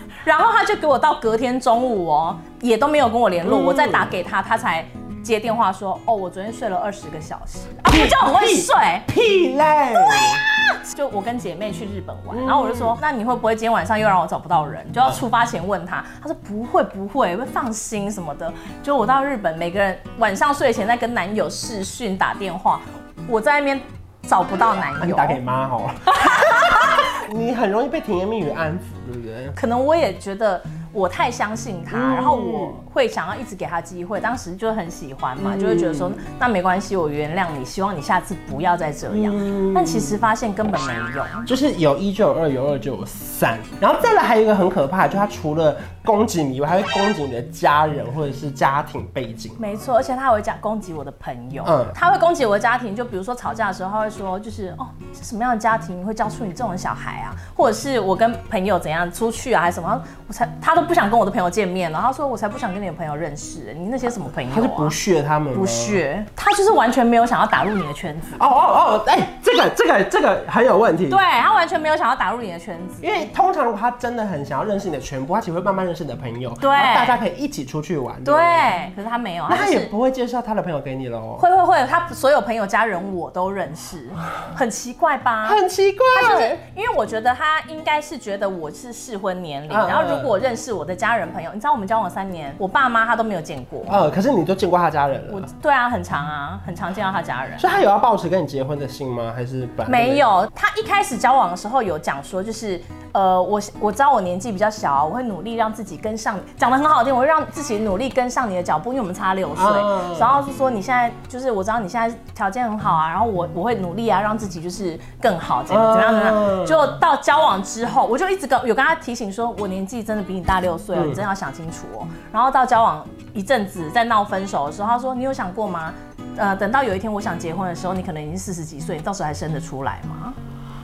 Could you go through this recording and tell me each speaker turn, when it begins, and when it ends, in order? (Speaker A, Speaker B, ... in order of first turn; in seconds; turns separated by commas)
Speaker A: 0.2-9.1, Speaker B: 3.4-4.2, Speaker B: 7.9-10.4, Speaker A: 10.0-25.4, Speaker B: 12.3-13.0, Speaker B: 24.5-29.6, Speaker A: 26.1-27.1, Speaker A: 29.6-41.5, Speaker B: 31.9-32.8, Speaker B: 35.4-36.2, Speaker B: 39.1-40.2, Speaker B: 41.5-49.6, Speaker A: 49.6-65.0, Speaker B: 51.6-52.0, Speaker B: 64.5-66.0, Speaker A: 65.5-68.5, Speaker B: 68.4-71.2, Speaker A: 71.1-73.2, Speaker B: 73.0-78.8, Speaker A: 76.6-77.2, Speaker A: 78.2-79.9, Speaker B: 79.5-81.5, Speaker A: 81.4-85.6, Speaker B: 85.4-86.6, Speaker A: 86.1-94.0, Speaker B: 89.7-90.3, Speaker B: 93.9-95.5, Speaker A: 95.3-97.8, Speaker B: 97.6-100.3, Speaker A: 99.9-130.4, Speaker B: 109.5-110.4, Speaker B: 115.7-117.0, Speaker B: 121.0-121.2